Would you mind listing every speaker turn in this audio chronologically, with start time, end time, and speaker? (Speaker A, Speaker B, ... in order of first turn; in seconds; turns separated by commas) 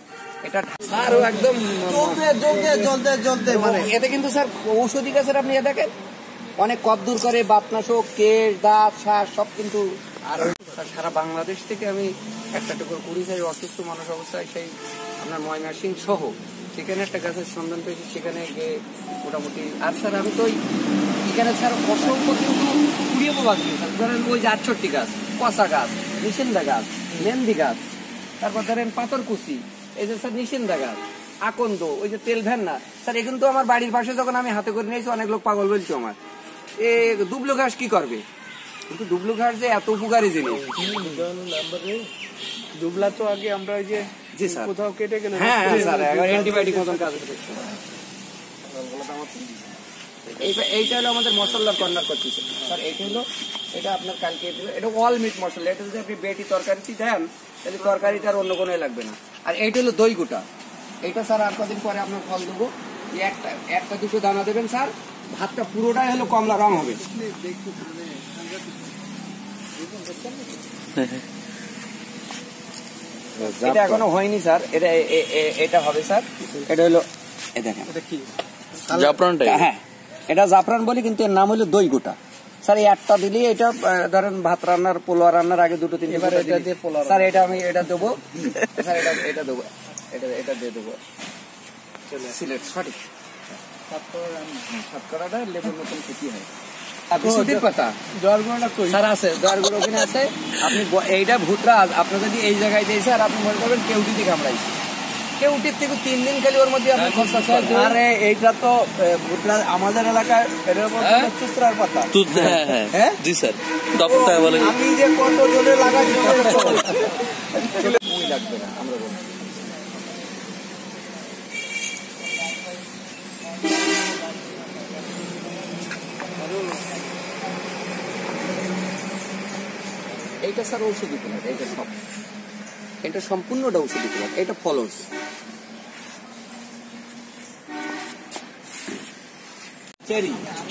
Speaker A: 0.5-5.9, Speaker B: 1.9-3.9, Speaker A: 6.6-18.7, Speaker A: 19.2-20.5, Speaker A: 21.3-27.8, Speaker A: 28.4-36.2, Speaker A: 36.8-38.2, Speaker A: 38.9-40.8, Speaker C: 41.0-41.7, Speaker B: 42.8-47.2, Speaker A: 44.3-44.7, Speaker A: 45.3-47.7, Speaker C: 48.7-49.8, Speaker A: 50.3-60.5, Speaker A: 61.0-67.0, Speaker C: 67.0-68.9, Speaker C: 69.8-70.5, Speaker D: 71.0-71.2, Speaker C: 73.3-74.0, Speaker A: 73.6-77.0, Speaker A: 77.6-77.9, Speaker C: 77.9-78.3, Speaker C: 78.8-79.2, Speaker D: 78.9-79.7, Speaker A: 79.4-91.0, Speaker B: 86.1-87.4, Speaker B: 92.1-92.4, Speaker A: 92.3-93.0, Speaker C: 93.9-94.7, Speaker A: 94.7-96.5, Speaker A: 97.1-98.0, Speaker B: 97.2-97.7, Speaker B: 98.2-99.0, Speaker A: 98.9-104.8, Speaker A: 105.4-107.9, Speaker D: 106.9-107.9, Speaker B: 107.7-113.2, Speaker D: 111.0-111.3, Speaker D: 112.1-114.7, Speaker B: 114.0-118.0, Speaker A: 117.8-119.4, Speaker A: 130.4-131.9, Speaker A: 133.0-135.1, Speaker B: 140.1-140.4